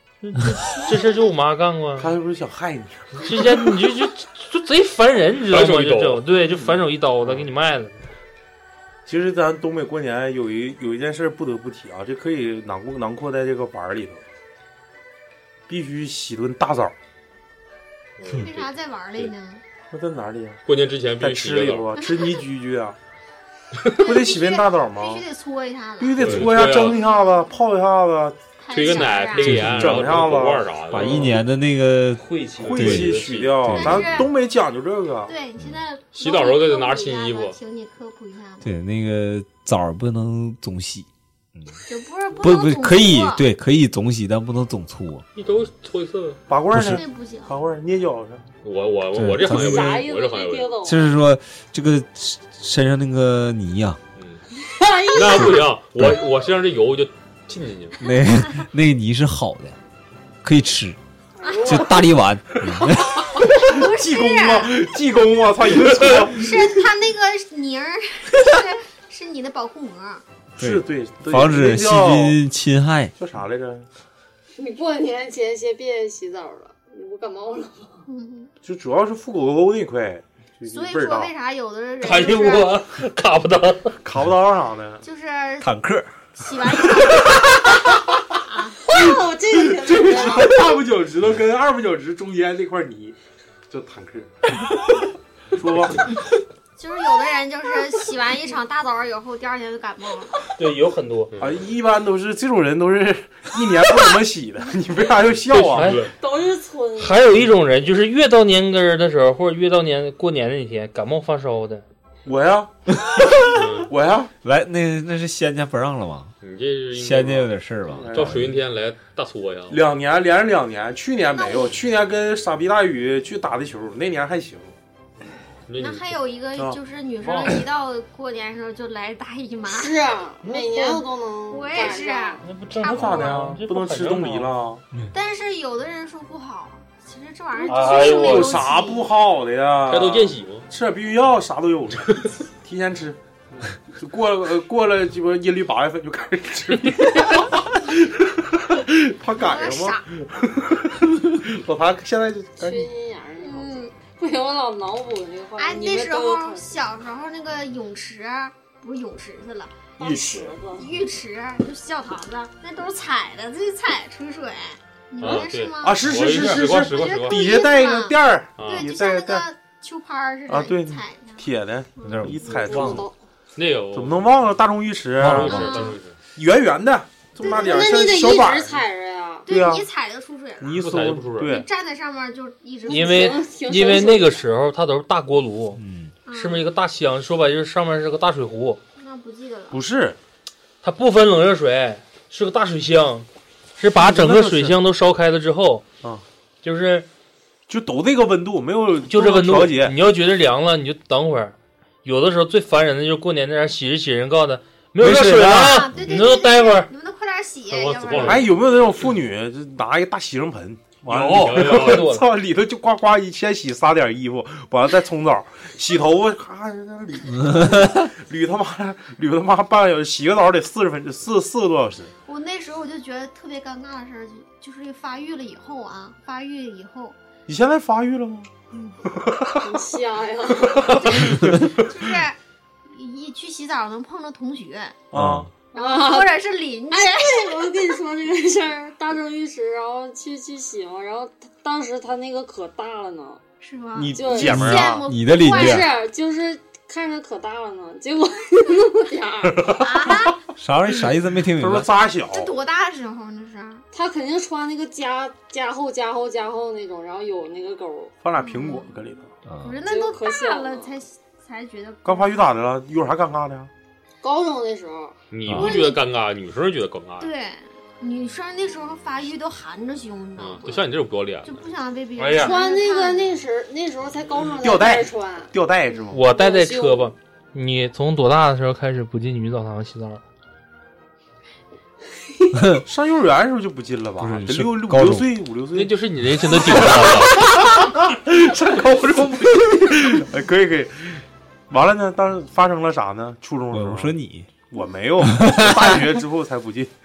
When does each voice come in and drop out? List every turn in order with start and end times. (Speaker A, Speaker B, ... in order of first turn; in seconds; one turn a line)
Speaker A: 0.2-2.1
Speaker B: 2.0-3.4
Speaker A: 3.2-8.0
Speaker C: 5.5-6.2
Speaker B: 6.6-7.5
Speaker B: 9.1-14.2
Speaker B: 15.7-16.9
Speaker C: 18.2-19.3
Speaker D: 18.4-19.6
Speaker B: 19.9-20.6
Speaker C: 20.6-21.9
Speaker B: 21.2-23.0
Speaker D: 21.9-22.4
Speaker D: 24.0-27.5
Speaker B: 24.0-25.2
Speaker B: 26.0-29.1
Speaker C: 26.2-27.0
Speaker D: 28.6-29.6
Speaker C: 28.7-31.4
Speaker E: 29.4-30.1
Speaker B: 29.6-31.4
Speaker E: 30.9-32.2
Speaker A: 32.2-33.3
Speaker B: 32.6-35.3
Speaker C: 32.7-33.6
Speaker E: 32.7-34.3
Speaker D: 33.7-34.3
Speaker D: 35.2-38.7
Speaker C: 36.1-37.6
Speaker E: 38.6-41.7
Speaker D: 41.9-43.4
Speaker E: 42.4-45.2
Speaker C: 45.3-46.4
Speaker B: 46.5-48.4
Speaker E: 46.7-47.0
Speaker D: 46.8-47.6
Speaker C: 48.6-50.7
Speaker E: 49.1-50.0
Speaker F: 49.4-51.1
Speaker E: 50.8-54.0
Speaker C: 54.2-54.4
Speaker F: 54.7-55.6
Speaker C: 55.1-58.0
Speaker E: 58.0-59.8
Speaker E: 60.4-61.0
Speaker F: 61.4-62.0
Speaker D: 61.4-61.9
Speaker E: 61.6-63.3
Speaker D: 63.2-64.8
Speaker B: 63.4-66.8
Speaker D: 66.1-70.2
Speaker B: 70.6-72.4
Speaker E: 70.6-73.1
Speaker B: 73.2-73.9
Speaker F: 74.5-78.0
Speaker D: 78.0-78.5
Speaker B: 78.6-81.3
Speaker D: 80.7-82.8
Speaker A: 82.0-83.9
Speaker B: 84.0-85.0
Speaker D: 85.0-85.7
Speaker E: 85.6-86.1
Speaker D: 86.4-88.8
Speaker E: 86.8-87.5
Speaker F: 88.8-90.8
Speaker B: 88.9-93.2
Speaker B: 93.7-94.7
Speaker B: 95.5-96.2
Speaker D: 96.8-100.4
Speaker A: 100.5-101.3
Speaker C: 101.3-101.7
Speaker B: 101.4-106.0
Speaker C: 105.4-106.1
Speaker A: 105.7-106.1
Speaker F: 106.1-107.2
Speaker A: 107.0-111.8
Speaker B: 112.2-112.7
Speaker E: 113.1-113.4
Speaker C: 113.5-113.9
Speaker B: 113.8-114.3
Speaker E: 114.4-116.3
Speaker C: 116.4-119.8
Speaker E: 116.9-118.5
Speaker B: 117.9-118.5
Speaker B: 119.7-124.7
Speaker D: 121.3-121.7
Speaker C: 125.7-126.1
Speaker D: 125.8-129.9
Speaker A: 127.2-127.5
Speaker F: 129.7-132.4
Speaker A: 130.4-130.9
Speaker D: 131.5-133.6
Speaker A: 132.4-134.5
Speaker B: 132.8-134.8
Speaker D: 135.1-139.1
Speaker A: 137.7-138.6
Speaker B: 137.7-152.9
Speaker C: 139.9-140.7
Speaker D: 149.3-150.1
Speaker F: 152.6-156.6
Speaker D: 153.4-154.0
Speaker D: 155.6-159.9
Speaker F: 160.0-160.9
Speaker B: 160.0-160.5
Speaker D: 160.7-172.4
Speaker C: 165.2-167.4
Speaker B: 165.8-169.4
Speaker C: 168.6-168.9
Speaker B: 170.5-173.1
Speaker E: 172.0-173.0
Speaker F: 172.5-173.1
Speaker C: 173.6-174.3
Speaker B: 173.9-175.8
Speaker E: 175.2-175.6
Speaker C: 175.2-176.1
Speaker D: 175.4-176.0
Speaker B: 176.3-178.8
Speaker D: 177.4-177.8
Speaker F: 177.4-179.5
Speaker D: 179.4-183.4
Speaker B: 179.5-179.9
Speaker B: 180.6-181.7
Speaker C: 180.8-181.5
Speaker F: 182.8-184.4
Speaker A: 182.9-185.8
Speaker E: 185.8-186.1
Speaker D: 186.2-186.7
Speaker A: 186.3-188.8
Speaker D: 189.0-189.8
Speaker B: 189.7-190.2
Speaker A: 190.8-193.3
Speaker A: 193.8-195.8
Speaker B: 193.9-194.8
Speaker A: 196.6-197.1
Speaker B: 197.7-199.9
Speaker A: 199.1-206.9
Speaker E: 205.0-205.9
Speaker D: 205.1-208.6
Speaker C: 207.7-209.0
Speaker B: 208.2-222.1
Speaker C: 211.1-212.1
Speaker A: 211.1-212.3
Speaker E: 217.5-217.9
Speaker D: 222.2-227.2
Speaker B: 227.5-228.5
Speaker D: 228.7-229.0
Speaker B: 229.1-229.7
Speaker F: 229.6-230.8
Speaker B: 230.6-231.8
Speaker D: 230.9-235.0
Speaker B: 235.1-235.5
Speaker E: 235.1-235.5
Speaker F: 235.7-243.4
Speaker D: 235.8-237.8
Speaker D: 243.6-245.9
Speaker B: 243.9-245.1
Speaker F: 244.1-244.6
Speaker E: 244.5-245.9
Speaker F: 245.3-249.7
Speaker B: 249.6-250.3
Speaker D: 249.7-250.4
Speaker E: 250.6-251.9
Speaker B: 251.5-252.5
Speaker D: 252.3-253.8
Speaker F: 253.9-258.1
Speaker B: 258.2-259.3
Speaker D: 258.4-258.9
Speaker E: 259.4-259.8
Speaker D: 259.6-262.5
Speaker F: 259.8-261.0
Speaker B: 262.0-263.7
Speaker F: 264.2-265.2
Speaker C: 265.3-267.3
Speaker E: 265.4-265.7
Speaker D: 265.5-266.0
Speaker D: 267.2-270.9
Speaker C: 270.4-271.7
Speaker D: 271.4-273.4
Speaker A: 272.2-272.6
Speaker F: 272.4-275.5
Speaker B: 274.6-276.2
Speaker A: 276.1-280.2
Speaker F: 276.2-277.1
Speaker E: 282.5-282.8
Speaker B: 282.8-294.1
Speaker E: 284.2-285.3
Speaker C: 285.7-287.4
Speaker E: 293.7-294.5
Speaker B: 294.7-296.9
Speaker E: 295.2-296.1